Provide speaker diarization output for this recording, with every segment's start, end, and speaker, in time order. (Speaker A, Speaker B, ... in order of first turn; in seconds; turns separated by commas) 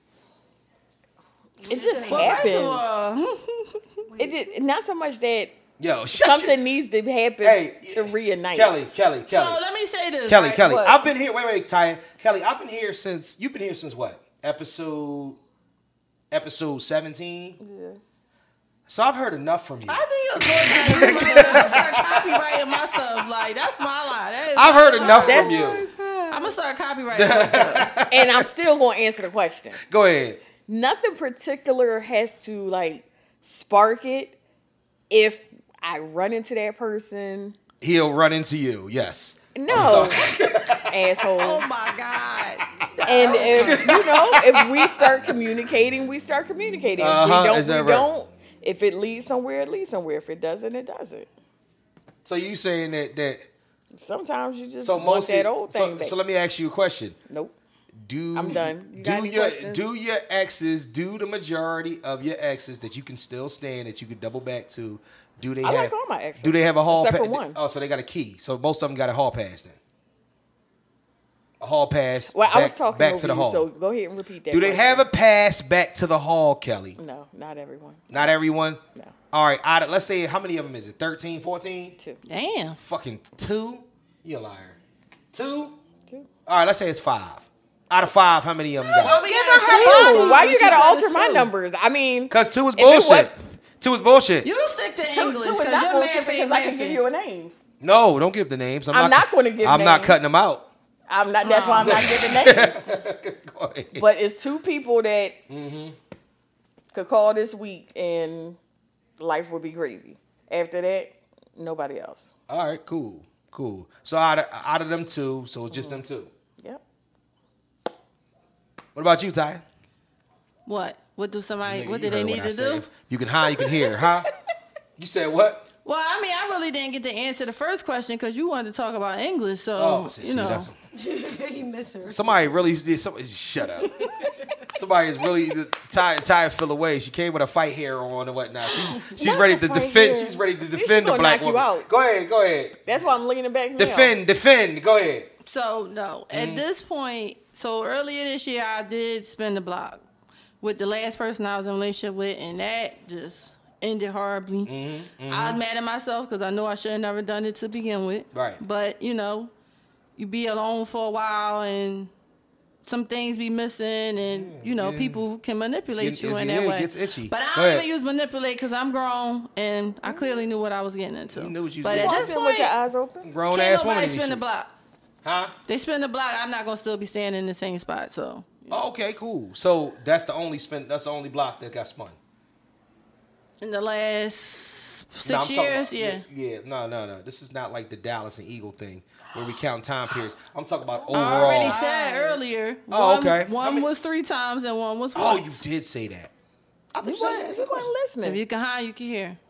Speaker A: 1.6-2.6, Speaker B: 1.7-2.9, Speaker C: 2.0-3.8, Speaker A: 4.1-4.4, Speaker B: 4.2-5.5, Speaker D: 5.8-6.5, Speaker B: 6.1-8.7, Speaker D: 7.4-9.6, Speaker C: 9.3-10.7, Speaker D: 10.3-15.4, Speaker B: 10.6-11.0, Speaker D: 16.3-17.6, Speaker B: 17.6-18.0, Speaker D: 18.9-22.6, Speaker C: 19.9-25.6, Speaker D: 24.5-25.9, Speaker A: 25.0-25.9, Speaker B: 25.2-26.4, Speaker C: 26.3-27.9, Speaker D: 27.1-28.5, Speaker B: 28.0-29.8, Speaker D: 29.8-30.4, Speaker B: 30.6-34.4, Speaker B: 35.1-37.5, Speaker D: 37.8-41.0, Speaker B: 39.5-40.3, Speaker C: 39.7-40.3, Speaker B: 40.9-41.6, Speaker C: 41.4-44.0, Speaker B: 43.0-51.3, Speaker D: 43.5-45.3, Speaker D: 47.0-48.1, Speaker D: 52.2-53.4, Speaker B: 53.9-56.2, Speaker D: 54.8-57.2, Speaker B: 57.3-57.5, Speaker D: 58.0-69.8, Speaker B: 58.3-59.9, Speaker B: 65.6-67.6, Speaker D: 71.6-73.7, Speaker B: 72.3-75.0, Speaker D: 74.5-77.0, Speaker B: 77.0-78.3, Speaker D: 78.1-78.8, Speaker D: 79.3-82.0, Speaker C: 82.2-82.8, Speaker D: 82.8-84.8, Speaker D: 85.3-85.7, Speaker D: 86.5-89.2, Speaker C: 89.0-91.5, Speaker A: 89.0-90.9, Speaker B: 89.6-93.3, Speaker D: 92.3-94.5, Speaker C: 94.4-97.0, Speaker B: 95.1-97.6, Speaker D: 97.8-100.7, Speaker B: 98.9-100.2, Speaker B: 101.1-102.9, Speaker C: 101.4-102.3, Speaker D: 101.8-104.0, Speaker B: 103.9-105.4, Speaker D: 105.5-106.0, Speaker B: 106.9-108.6, Speaker B: 109.2-112.3, Speaker D: 112.5-116.3, Speaker B: 115.7-116.0, Speaker D: 118.9-119.6, Speaker C: 120.7-122.9, Speaker D: 121.6-124.3, Speaker D: 125.0-125.7, Speaker C: 125.8-130.7, Speaker D: 129.8-130.8, Speaker A: 130.9-132.3, Speaker D: 132.0-134.1, Speaker A: 133.9-134.4, Speaker D: 134.7-143.0, Speaker B: 139.0-141.9, Speaker B: 142.8-144.2, Speaker D: 143.8-145.3, Speaker C: 145.4-150.0, Speaker D: 146.3-146.6, Speaker C: 150.6-154.7, Speaker D: 154.7-155.6, Speaker C: 155.2-159.5, Speaker D: 158.3-158.6, Speaker C: 160.2-162.1, Speaker C: 162.8-172.7, Speaker D: 164.2-165.2, Speaker D: 165.9-167.9, Speaker D: 171.3-172.3, Speaker B: 171.9-173.3, Speaker D: 173.2-174.4, Speaker C: 173.5-174.7, Speaker D: 175.2-175.5, Speaker C: 175.7-178.7, Speaker D: 178.7-182.2, Speaker C: 183.6-186.2, Speaker D: 185.2-191.8, Speaker A: 191.1-192.3, Speaker C: 191.1-195.6, Speaker B: 191.4-192.2, Speaker D: 192.9-193.9, Speaker D: 195.1-196.3, Speaker D: 196.9-197.9, Speaker B: 197.0-198.4, Speaker C: 198.2-199.4